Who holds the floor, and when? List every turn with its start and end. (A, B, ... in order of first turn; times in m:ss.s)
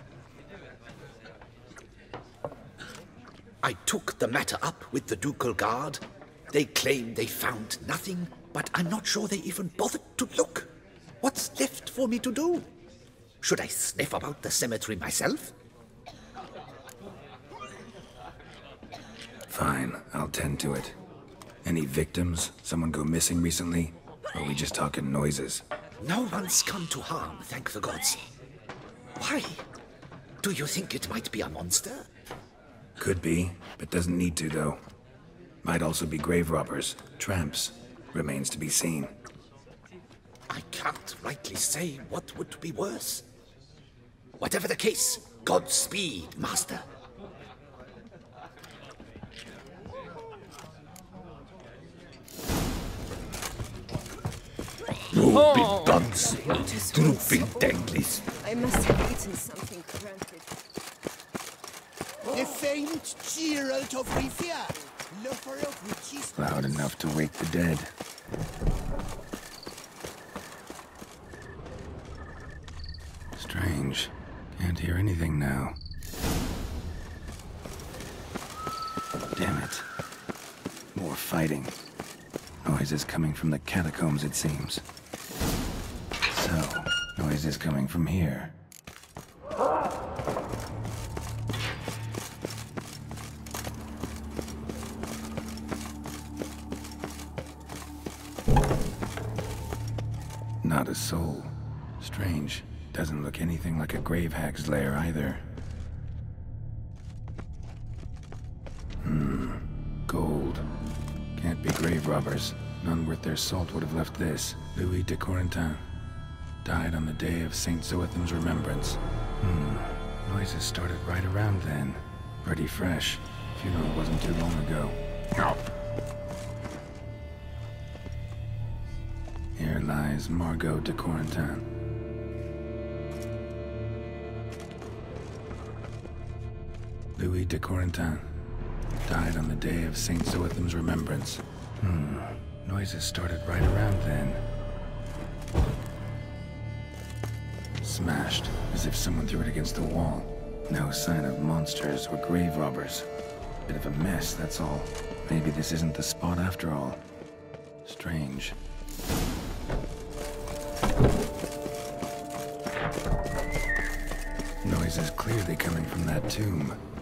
0:03.6-0:12.7 A
0:13.4-0:15.5 A
0:19.5-0:21.0 B
0:21.6-0:25.6 B
0:26.0-0:28.2 A
0:29.2-0:29.6 A
0:30.4-0:32.1 A
0:33.0-0:34.8 B
0:35.6-0:39.1 B
0:40.5-0:43.2 A
0:44.4-0:46.8 A
0:55.1-0:58.2 A
0:56.0-0:57.8 C
0:58.4-1:00.5 C
1:02.3-1:06.9 D
1:06.4-1:07.9 B
1:13.4-1:15.8 B
1:19.4-1:19.8 B
1:20.9-1:21.8 B
1:22.6-1:24.8 B
1:26.3-1:28.5 B
1:40.6-1:45.4 B
1:49.0-1:50.7 B
1:51.4-1:55.8 B
1:56.6-2:05.0 B
2:09.6-2:11.6 B
2:17.2-2:18.2 B
2:19.0-2:24.4 B
2:27.8-2:33.1 B
2:33.6-2:37.0 B
2:37.8-2:38.6 B
2:44.6-2:46.8 B